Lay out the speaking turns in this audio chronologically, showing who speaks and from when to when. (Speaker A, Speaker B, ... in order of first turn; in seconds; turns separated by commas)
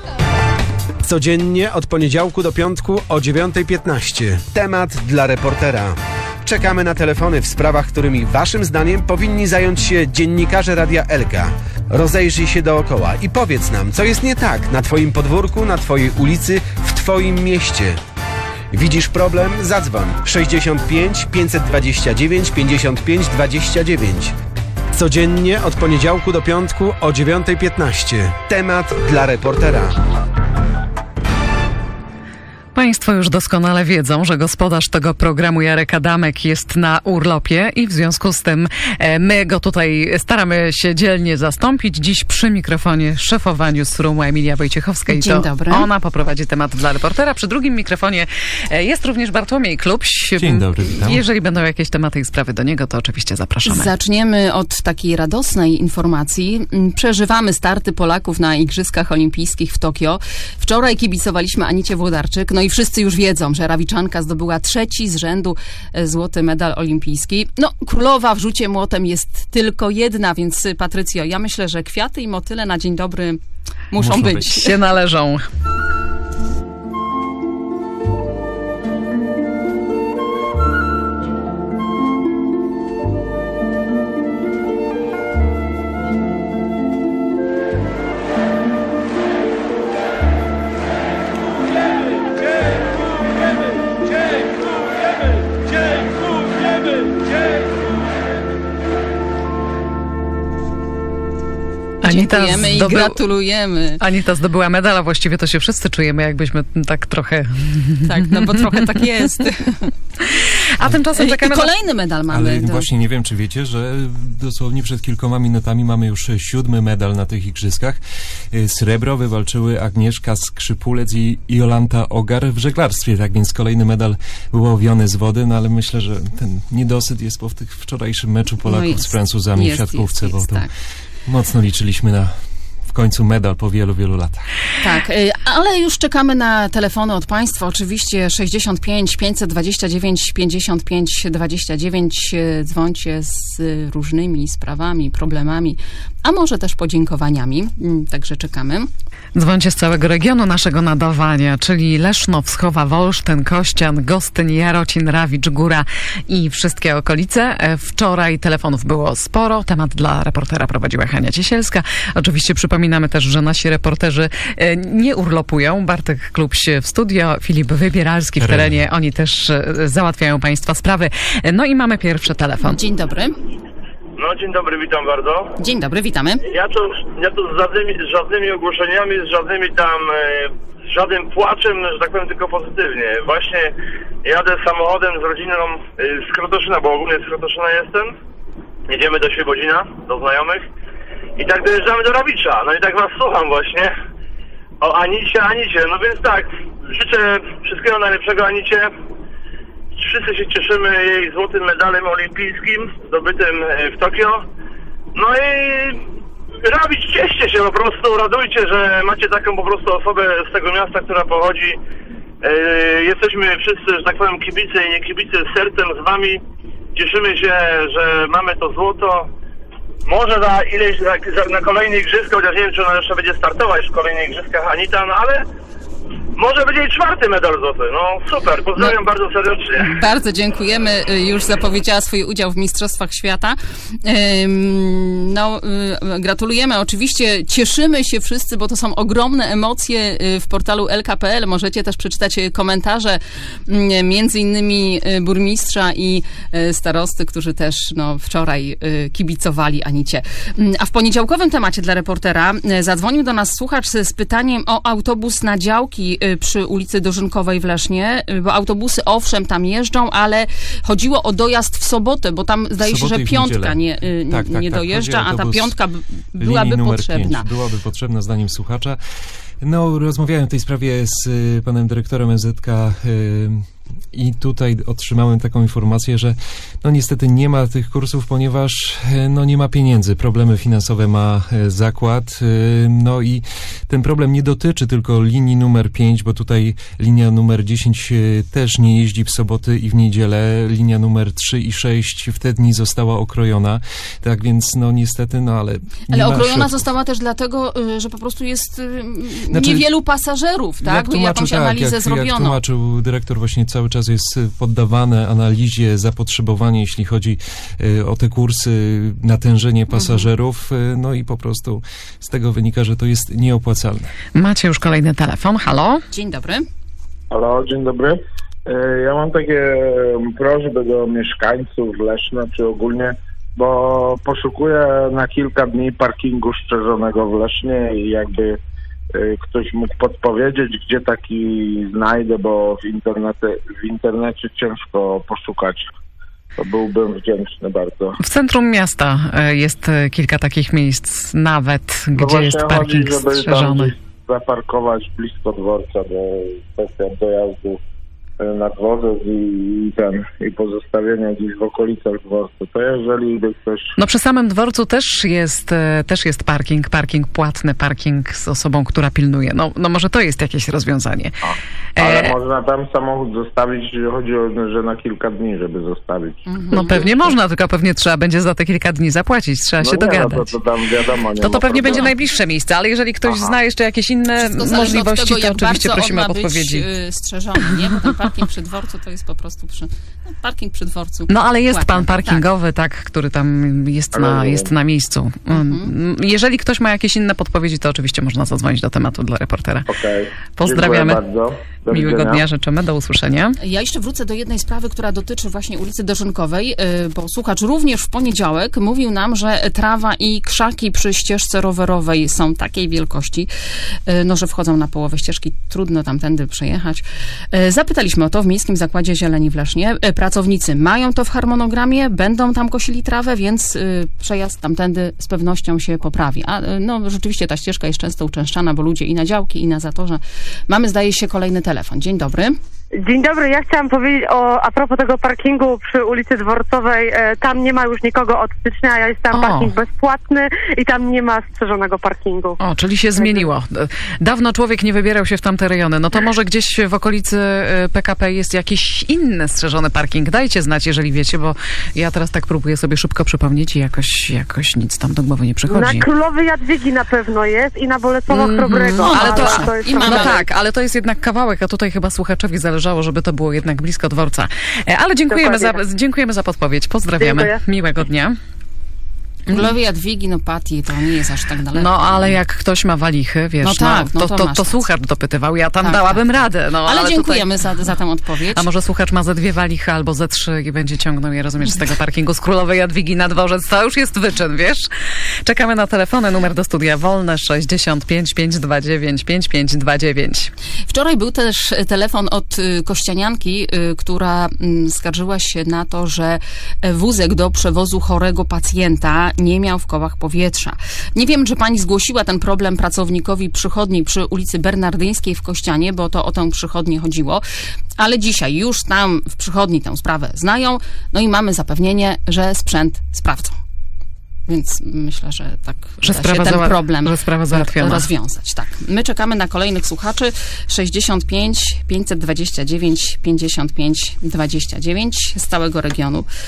Speaker A: 1.0-18.0, Speaker A: 18.7-24.3, Speaker A: 24.9-29.9, Speaker B: 32.8-53.9, Speaker C: 45.1-45.9, Speaker D: 50.4-51.2, Speaker C: 53.7-74.7, Speaker D: 74.0-74.4, Speaker B: 74.5-75.5, Speaker B: 102.0-103.2, Speaker C: 102.0-104.0, Speaker B: 104.0-109.0, Speaker C: 108.0-109.9, Speaker B: 110.3-111.7, Speaker C: 111.1-112.9, Speaker D: 112.3-118.0, Speaker D: 118.5-130.7, Speaker C: 128.7-130.7, Speaker D: 131.2-132.3, Speaker D: 132.9-134.5, Speaker C: 134.8-148.9, Speaker B: 149.3-172.8, Speaker D: 168.4-168.8, Speaker C: 172.6-173.4, Speaker E: 174.2-175.5, Speaker C: 175.6-176.4, Speaker E: 176.4-188.2, Speaker E: 188.9-190.7, Speaker E: 191.4-193.9, Speaker E: 194.8-198.9, Speaker E: 200.0-204.4, Speaker E: 205.2-206.0, Speaker E: 206.6-211.8, Speaker E: 212.4-216.4, Speaker E: 216.9-219.3, Speaker E: 220.1-225.4, Speaker E: 226.3-229.9, Speaker C: 229.8-267.5, Speaker D: 262.8-265.8, Speaker D: 266.4-269.0, Speaker D: 269.6-296.8, Speaker C: 296.1-302.6, Speaker D: 299.5-299.9, Speaker D: 300.8-314.1, Speaker C: 309.9-310.3, Speaker B: 314.4-316.1, Speaker C: 316.1-316.7, Speaker F: 317.3-328.6, Speaker F: 329.1-335.9, Speaker F: 336.6-338.2, Speaker B: 338.2-343.9, Speaker F: 342.1-347.8, Speaker F: 348.4-353.9, Speaker B: 354.0-361.4, Speaker F: 361.4-366.4, Speaker B: 362.0-362.4, Speaker C: 366.5-367.3, Speaker B: 366.7-370.6, Speaker F: 369.8-372.1, Speaker B: 371.4-376.9, Speaker F: 373.3-373.6, Speaker C: 374.4-382.4, Speaker B: 381.3-389.9, Speaker F: 384.1-384.7, Speaker C: 385.5-385.9, Speaker F: 389.9-392.4, Speaker B: 390.6-391.2, Speaker B: 391.9-393.6, Speaker C: 393.6-403.5, Speaker C: 404.1-422.6, Speaker G: 423.0-432.6, Speaker B: 429.3-429.7, Speaker B: 432.6-446.1, Speaker G: 433.1-433.4, Speaker G: 445.7-450.5, Speaker B: 448.3-458.4, Speaker C: 449.0-450.4, Speaker G: 455.3-455.8, Speaker G: 457.2-457.6, Speaker C: 459.5-462.4, Speaker B: 461.7-467.7, Speaker C: 463.6-464.9, Speaker C: 465.8-468.7, Speaker B: 468.6-474.9, Speaker B: 475.4-480.5, Speaker C: 480.9-497.4, Speaker C: 498.0-503.6, Speaker C: 504.5-516.3, Speaker B: 506.0-508.1